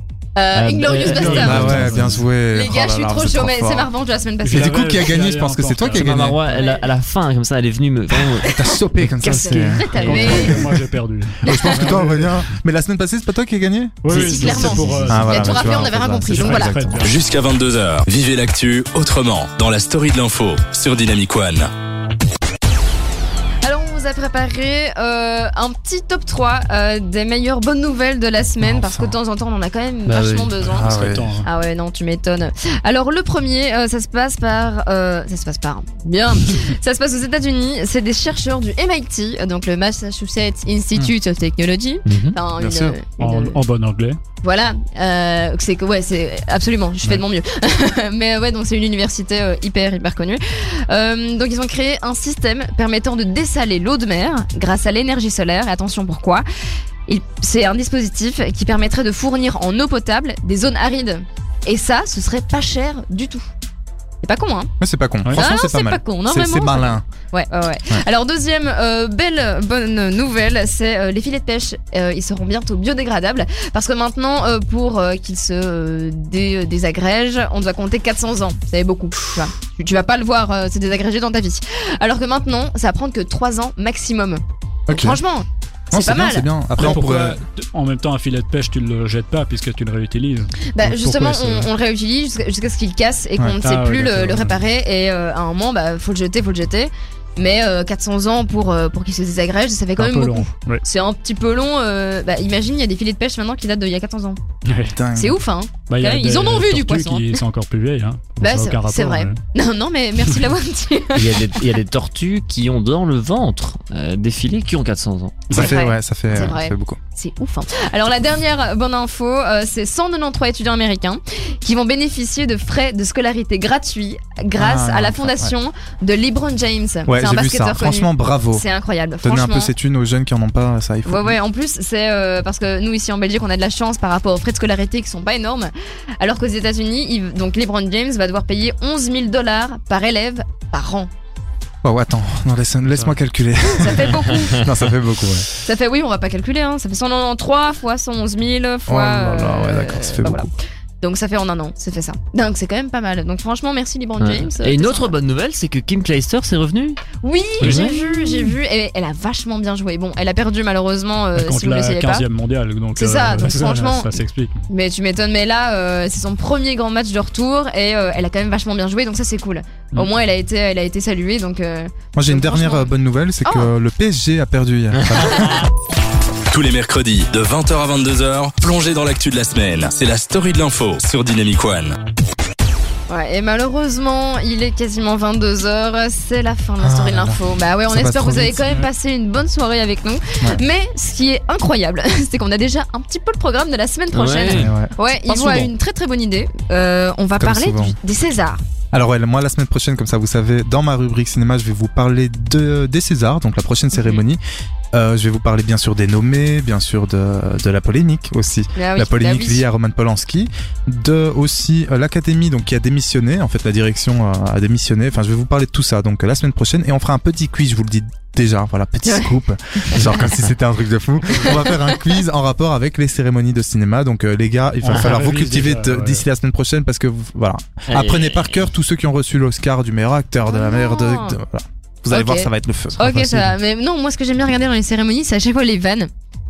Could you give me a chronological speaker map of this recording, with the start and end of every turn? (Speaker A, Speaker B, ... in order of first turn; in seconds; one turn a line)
Speaker A: 0.3-4.8
Speaker B: 0.5-2.2
Speaker C: 1.0-2.2
Speaker D: 1.3-3.9
Speaker C: 4.4-6.3
Speaker D: 4.5-6.4
Speaker B: 6.0-8.5
Speaker A: 6.5-6.8
Speaker A: 8.2-10.7
Speaker D: 8.4-10.7
Speaker C: 10.0-12.5
Speaker D: 11.4-17.0
Speaker A: 11.4-12.0
Speaker C: 14.0-17.1
Speaker A: 14.1-16.8
Speaker E: 17.0-21.7
Speaker A: 23.6-43.6
Speaker D: 28.6-29.1
Speaker B: 30.1-30.5
Speaker D: 30.6-31.4
Speaker C: 30.7-31.5
Speaker B: 42.0-42.4
Speaker D: 42.6-43.0
Speaker C: 43.2-44.2
Speaker A: 44.4-56.4
Speaker A: 57.1-63.5
Speaker A: 64.2-64.7
Speaker D: 64.8-67.0
Speaker A: 65.3-86.5
Speaker D: 84.9-85.2
Speaker D: 85.9-87.4
Speaker C: 86.8-91.7
Speaker A: 90.7-104.4
Speaker C: 93.6-94.6
Speaker C: 100.0-100.8
Speaker C: 104.7-105.0
Speaker D: 104.9-105.4
Speaker A: 105.1-107.4
Speaker C: 105.9-109.4
Speaker A: 108.4-111.4
Speaker B: 111.1-115.5
Speaker D: 115.5-117.0
Speaker A: 115.5-129.7
Speaker D: 124.6-125.5
Speaker D: 127.0-128.6
Speaker D: 129.2-131.4
Speaker A: 131.1-141.1
Speaker D: 141.8-145.5
Speaker A: 143.7-144.7
Speaker A: 145.6-150.5
Speaker D: 148.9-150.5
Speaker A: 151.0-155.1
Speaker B: 154.2-157.0
Speaker A: 157.2-162.2
Speaker B: 157.6-157.9
Speaker C: 157.6-158.4
Speaker C: 161.3-164.7
Speaker A: 162.9-164.1
Speaker A: 164.7-172.9
Speaker D: 172.1-175.7
Speaker A: 173.4-173.7
Speaker B: 175.0-175.6
Speaker E: 176.5-181.9
Speaker A: 183.1-198.6
Speaker D: 186.8-188.7
Speaker B: 194.1-194.7
Speaker D: 194.5-194.9
Speaker B: 195.2-195.7
Speaker D: 197.4-197.9
Speaker D: 198.9-204.4
Speaker A: 203.9-204.2
Speaker D: 204.9-233.5
Speaker A: 208.8-209.6
Speaker A: 219.1-220.3
Speaker C: 221.2-221.6
Speaker A: 221.4-222.0
Speaker C: 224.8-226.2
Speaker B: 227.9-228.7
Speaker A: 230.5-231.4
Speaker A: 232.1-236.1